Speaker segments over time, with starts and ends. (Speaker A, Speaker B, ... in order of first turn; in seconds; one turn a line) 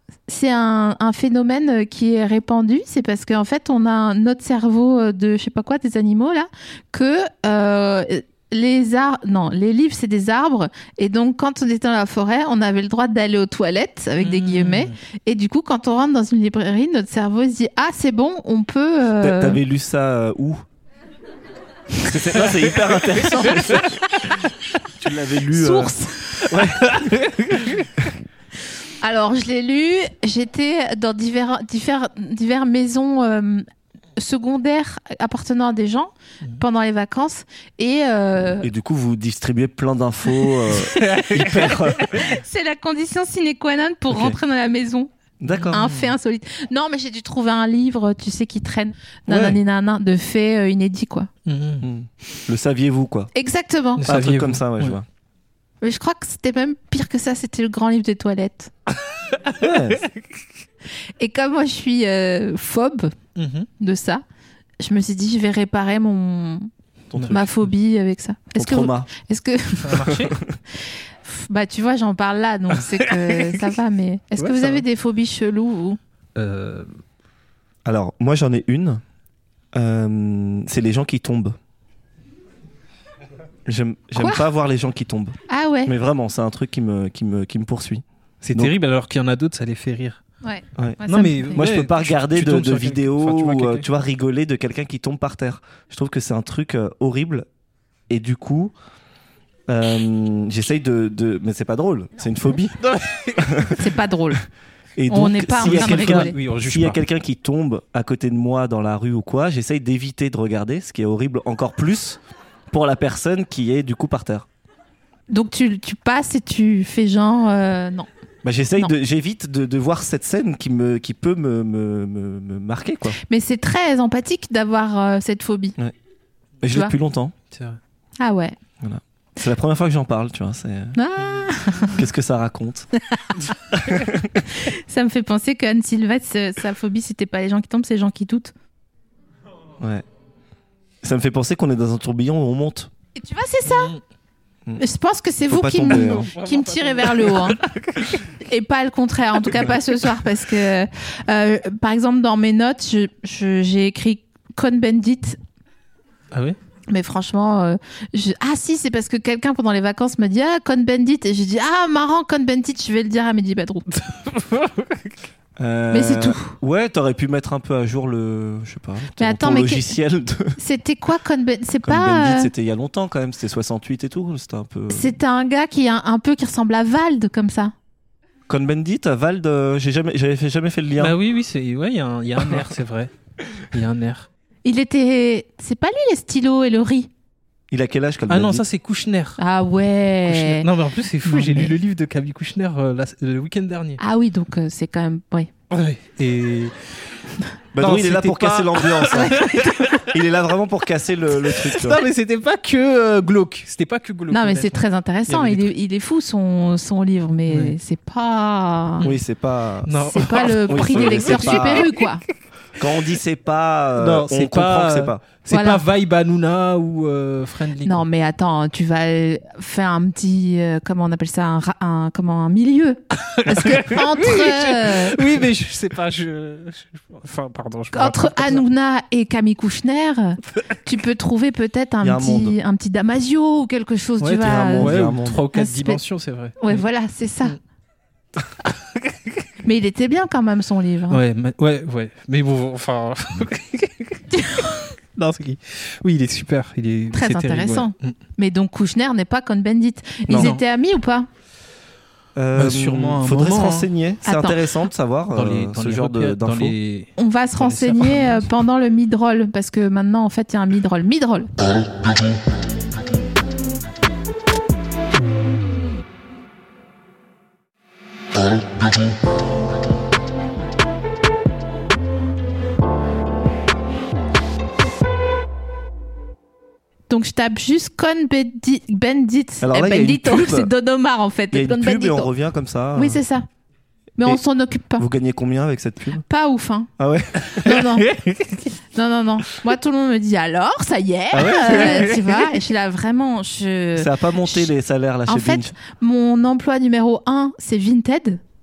Speaker A: 0.3-19.6
Speaker B: 14.2-14.9
Speaker C: 19.2-20.6
Speaker C: 22.0-24.4
Speaker C: 24.9-25.9
Speaker A: 25.5-26.4
Speaker C: 26.4-26.9
Speaker B: 26.9-27.9
Speaker A: 29.0-33.6
Speaker A: 34.2-38.7
Speaker C: 38.6-42.3
Speaker B: 41.0-41.4
Speaker A: 41.5-45.1
Speaker C: 44.1-44.4
Speaker C: 45.4-45.9
Speaker B: 45.5-46.1
Speaker A: 45.7-51.3
Speaker B: 51.5-51.9
Speaker C: 51.8-53.3
Speaker A: 53.3-54.0
Speaker B: 54.0-55.0
Speaker C: 54.0-55.0
Speaker A: 55.8-58.7
Speaker C: 59.6-60.0
Speaker A: 61.2-63.1
Speaker B: 63.4-63.7
Speaker A: 63.8-64.2
Speaker A: 64.8-66.7
Speaker C: 67.1-67.5
Speaker B: 67.1-67.4
Speaker A: 67.3-70.1
Speaker C: 68.5-69.1
Speaker B: 69.8-70.4
Speaker C: 70.0-70.6
Speaker A: 70.8-76.0
Speaker B: 72.8-73.6
Speaker B: 74.4-74.8
Speaker B: 76.3-76.9
Speaker C: 77.8-79.0
Speaker C: 79.7-81.5
Speaker C: 83.7-88.7
Speaker A: 84.2-84.4
Speaker A: 85.5-85.9
Speaker B: 88.4-90.2
Speaker A: 90.4-91.6
Speaker C: 90.8-97.5
Speaker B: 91.1-93.8
Speaker C: 98.1-98.7
Speaker C: 99.7-102.8
Speaker B: 102.8-103.7
Speaker C: 103.4-103.8
Speaker A: 103.8-104.4
Speaker C: 105.0-112.2
Speaker A: 105.1-106.3
Speaker B: 105.5-107.0
Speaker C: 112.7-114.5
Speaker A: 115.3-118.1
Speaker C: 118.4-123.2
Speaker A: 123.2-125.8
Speaker C: 126.6-127.3
Speaker B: 127.5-127.8
Speaker A: 128.2-128.5
Speaker C: 128.8-131.0
Speaker A: 130.9-132.0
Speaker C: 131.9-132.9
Speaker A: 133.1-133.4
Speaker C: 133.7-134.4
Speaker A: 134.5-138.5
Speaker C: 139.8-140.0
Speaker C: 141.0-142.9
Speaker A: 143.2-143.9
Speaker B: 143.7-144.0
Speaker A: 144.8-147.6
Speaker C: 145.5-146.3
Speaker B: 145.8-148.2
Speaker A: 148.4-155.4
Speaker B: 156.3-156.6
Speaker A: 156.9-163.9
Speaker B: 164.1-165.0
Speaker C: 165.6-170.6
Speaker A: 165.9-166.5
Speaker A: 169.2-169.9
Speaker A: 170.6-172.5
Speaker C: 171.8-175.2
Speaker A: 174.9-177.7
Speaker C: 178.5-181.2
Speaker B: 181.0-184.3
Speaker A: 184.6-187.1
Speaker C: 187.7-188.6
Speaker B: 188.3-189.4
Speaker A: 189.4-190.7
Speaker B: 190.2-194.0
Speaker A: 191.2-191.7
Speaker A: 194.0-195.5
Speaker B: 195.7-196.7
Speaker C: 197.7-199.5
Speaker B: 197.8-200.0
Speaker A: 199.1-200.0
Speaker C: 200.0-202.0
Speaker B: 201.5-205.7
Speaker A: 204.3-209.1
Speaker B: 207.5-207.8
Speaker C: 209.0-211.9
Speaker B: 209.8-212.0
Speaker A: 210.0-212.2
Speaker C: 212.8-215.2
Speaker B: 214.0-218.0
Speaker A: 215.5-215.8
Speaker A: 217.8-225.2
Speaker B: 223.3-228.6
Speaker A: 227.9-235.0
Speaker C: 232.0-232.6
Speaker B: 234.2-236.8
Speaker C: 234.4-235.4
Speaker A: 235.5-236.0
Speaker A: 236.6-237.6
Speaker A: 239.6-241.2
Speaker B: 241.1-244.2
Speaker A: 244.3-244.9
Speaker B: 245.2-248.2
Speaker A: 247.1-251.3
Speaker C: 250.3-250.5
Speaker B: 250.3-250.6
Speaker C: 252.3-256.8
Speaker B: 252.5-253.9
Speaker A: 254.2-254.7
Speaker B: 255.3-258.5
Speaker A: 257.2-261.5
Speaker A: 277.1-282.3
Speaker C: 279.6-280.7
Speaker C: 281.5-283.2
Speaker A: 282.9-283.5
Speaker A: 284.2-285.1
Speaker C: 285.0-286.2
Speaker A: 286.2-286.9
Speaker C: 287.0-287.6
Speaker A: 287.6-288.1
Speaker B: 287.7-288.7
Speaker A: 288.9-294.7
Speaker C: 291.3-292.0
Speaker B: 291.5-292.4
Speaker C: 293.9-295.7
Speaker A: 295.3-298.4